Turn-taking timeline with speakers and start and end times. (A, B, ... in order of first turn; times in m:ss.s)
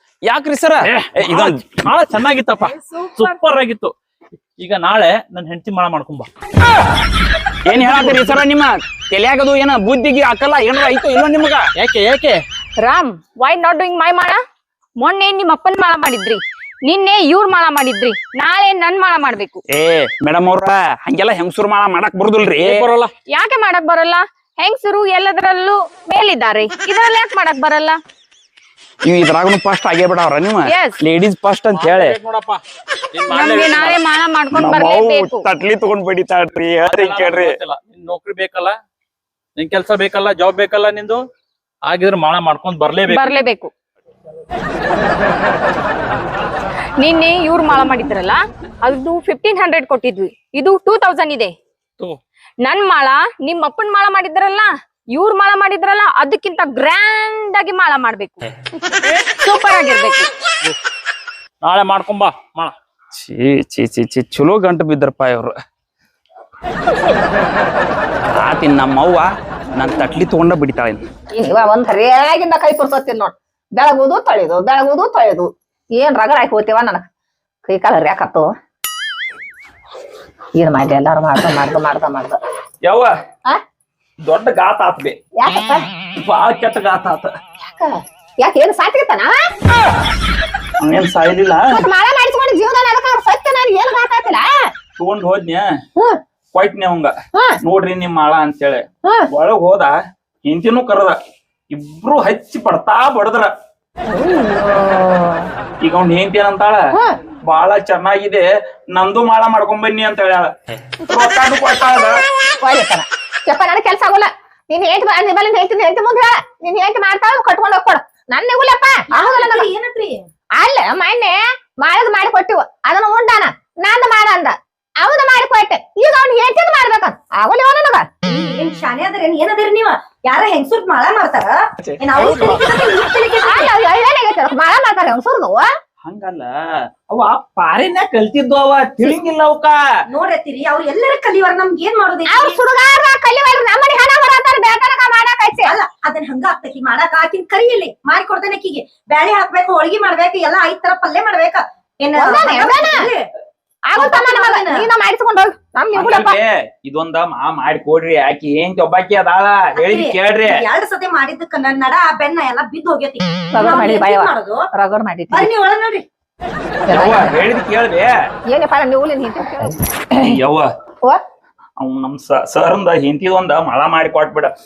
0:00.2-0:01.6 A
0:00.8-0:03.9 B
0:02.6-0:03.4 C
0:04.6-0:06.3 B
0:07.6-0:11.7 A
0:07.7-0:08.4 B
0:11.8-0:12.4 B
0:12.8-0:14.4 C
0:15.0-0:19.6 C
0:19.7-0:22.8 A
0:22.6-0:23.1 B
0:23.3-0:28.0 C
0:29.0-0:32.2 A
0:30.7-0:31.0 C
0:31.7-0:32.6 B
0:33.1-0:34.0 B
0:33.3-0:35.4 C
0:34.5-0:37.5 A
0:36.8-0:38.8 B
0:39.6-0:41.2 B
0:41.8-0:43.4 B
0:43.0-0:43.7 C
0:47.0-0:51.5 C
0:52.6-0:58.5 C
0:59.2-1:00.3 C
1:01.6-1:02.7 B
1:03.1-1:05.5 A
1:08.3-1:11.0 A
1:11.3-1:17.0 D
1:17.6-1:18.4 D
1:20.6-1:22.4 D
1:22.8-1:23.1 A
1:24.2-1:25.2 A
1:25.4-1:25.8 D
1:26.2-1:27.3 A
1:27.7-1:29.4 D
1:30.8-1:31.8 A
1:31.8-1:34.5 D
1:35.0-1:35.7 A
1:36.5-1:41.2 A
1:41.7-1:43.5 A
1:44.1-1:45.4 D
1:45.8-1:46.9 A
1:47.4-1:50.5 A
1:51.1-1:52.2 A
1:52.6-1:59.7 D
1:59.1-2:00.2 E
2:00.6-2:08.0 D
2:08.2-2:13.7 E
2:13.4-2:15.6 D
2:16.0-2:16.5 A
2:17.1-2:19.8 A
2:20.1-2:22.6 E
2:22.3-2:25.7 D
2:25.6-2:33.3 E
2:32.1-2:33.0 D
2:33.9-2:36.4 D
2:33.9-2:34.9 E
2:35.9-2:40.6 A
2:39.8-2:44.6 E
2:43.5-2:45.5 D
2:45.3-2:46.0 E
2:46.9-2:47.3 D
2:46.9-2:48.1 A
2:48.5-2:50.3 D
2:50.2-2:50.7 A
2:51.8-2:54.5 A